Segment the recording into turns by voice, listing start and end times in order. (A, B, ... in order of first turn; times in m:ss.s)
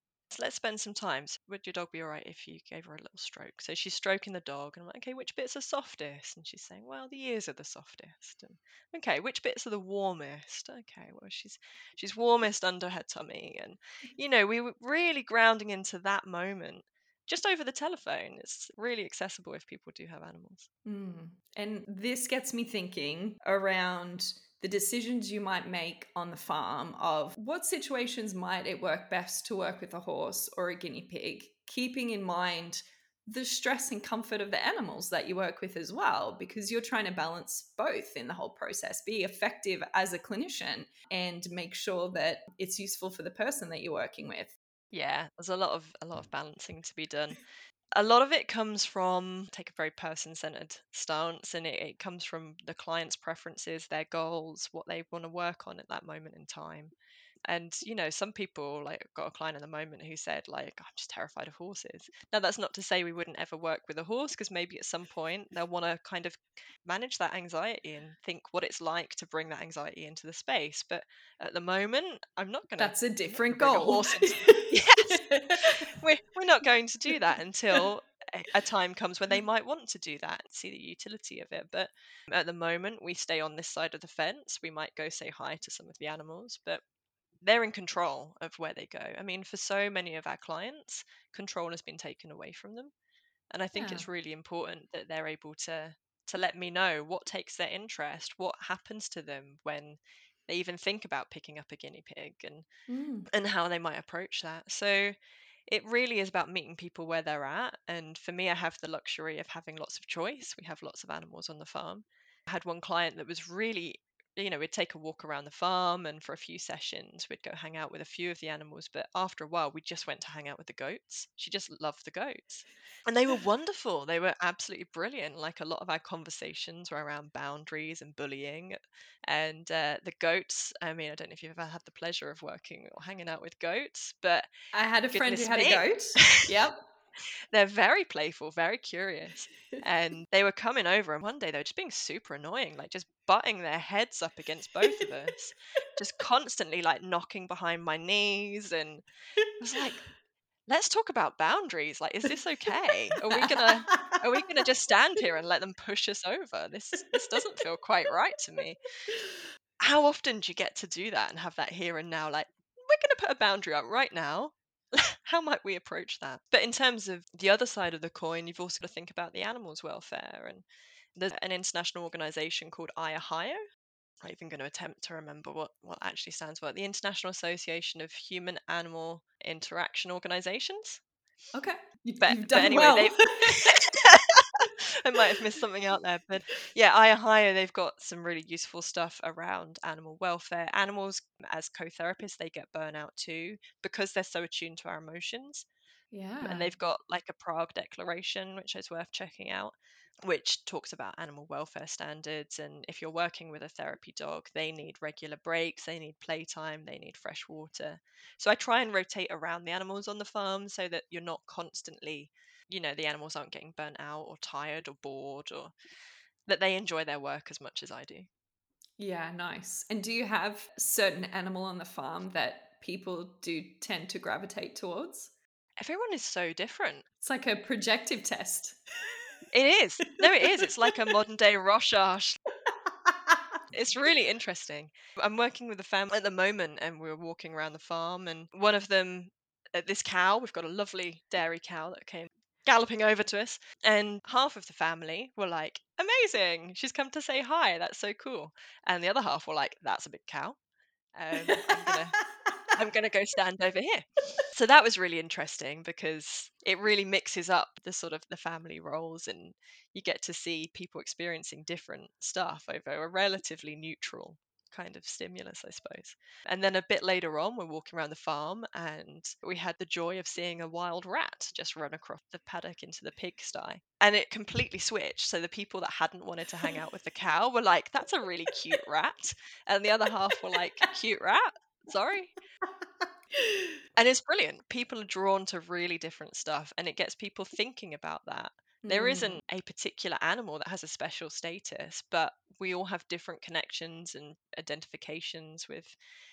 0:00.3-0:20.7 A
0:20.8-0:44.6 B
0:44.9-0:47.4 A
0:48.0-0:56.9 A
0:57.5-1:26.8 A
1:12.8-1:15.9 B
1:27.4-1:32.9 A
1:33.5-1:42.7 A
1:33.8-1:34.1 B
1:42.9-1:43.3 B
1:43.3-1:45.2 A
1:45.7-2:14.5 A
2:14.7-2:16.8 B
2:15.1-2:16.5 A
2:17.5-2:29.0 A
2:29.6-2:30.1 A
2:30.7-2:38.8 A
2:33.3-2:34.2 B
2:39.8-2:53.6 A
2:54.2-3:01.0 A
3:01.5-3:03.6 B
3:02.2-3:15.7 A
3:16.1-3:16.7 B
3:16.4-3:35.7 A
3:36.5-3:38.3 A
3:39.0-3:45.3 B
3:45.8-3:47.1 A
3:47.2-3:48.8 B
3:49.5-3:52.4 A
3:50.5-3:50.9 B
3:53.1-3:53.4 B
3:53.7-4:10.6 A
4:11.2-4:12.2 A
4:11.4-4:11.9 B
4:12.7-4:42.4 A
4:43.4-4:43.7 B
4:44.0-4:56.0 A
4:48.8-4:49.4 B